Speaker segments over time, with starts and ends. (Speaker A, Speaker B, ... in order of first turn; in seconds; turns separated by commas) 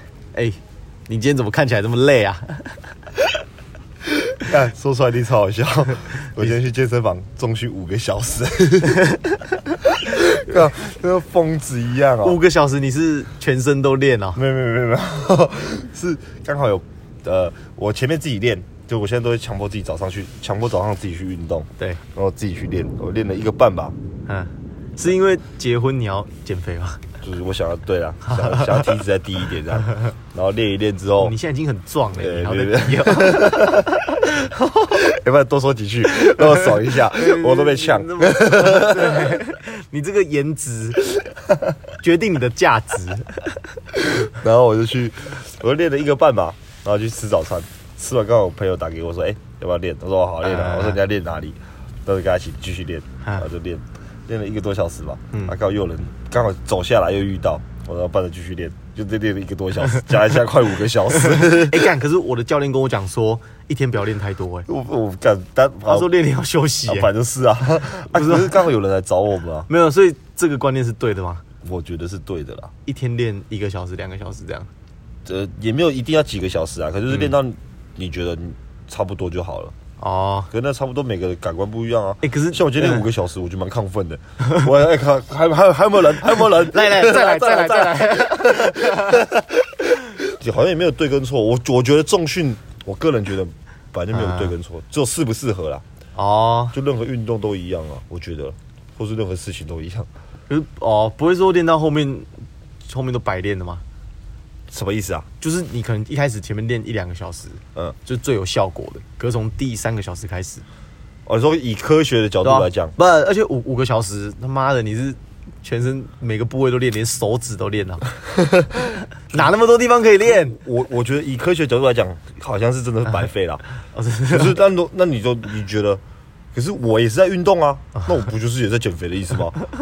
Speaker A: 0.3-2.8, Speaker B: 4.4-9.1, Speaker A: 9.0-9.3, Speaker B: 9.7-12.4, Speaker A: 12.2-14.4, Speaker B: 14.3-23.9, Speaker A: 24.3-27.0, Speaker B: 27.2-31.3, Speaker A: 28.2-28.9, Speaker A: 31.2-35.0, Speaker B: 32.1-34.0, Speaker B: 34.9-39.4, Speaker A: 36.1-41.0, Speaker A: 42.0-43.5, Speaker B: 44.3-61.9, Speaker A: 50.4-51.0, Speaker A: 55.3-55.6, Speaker A: 61.2-64.7, Speaker B: 64.7-66.1, Speaker A: 65.8-67.1, Speaker B: 66.9-69.7, Speaker A: 68.0-68.5, Speaker A: 69.7-71.4, Speaker B: 71.6-72.7, Speaker A: 72.8-74.7, Speaker B: 75.2-79.7, Speaker A: 80.0-80.5, Speaker B: 80.5-95.8, Speaker A: 82.2-83.1, Speaker A: 86.4-89.2, Speaker A: 94.1-94.5, Speaker A: 96.2-96.7, Speaker B: 96.7-100.1, Speaker A: 100.5-102.3, Speaker A: 102.8-103.8, Speaker B: 104.7-105.3, Speaker A: 105.4-110.6, Speaker B: 111.2-112.9, Speaker A: 112.4-118.1, Speaker B: 118.3-118.7, Speaker A: 118.7-120.6, Speaker B: 120.5-123.6, Speaker A: 123.9-124.6, Speaker B: 124.3-126.0, Speaker B: 126.5-129.6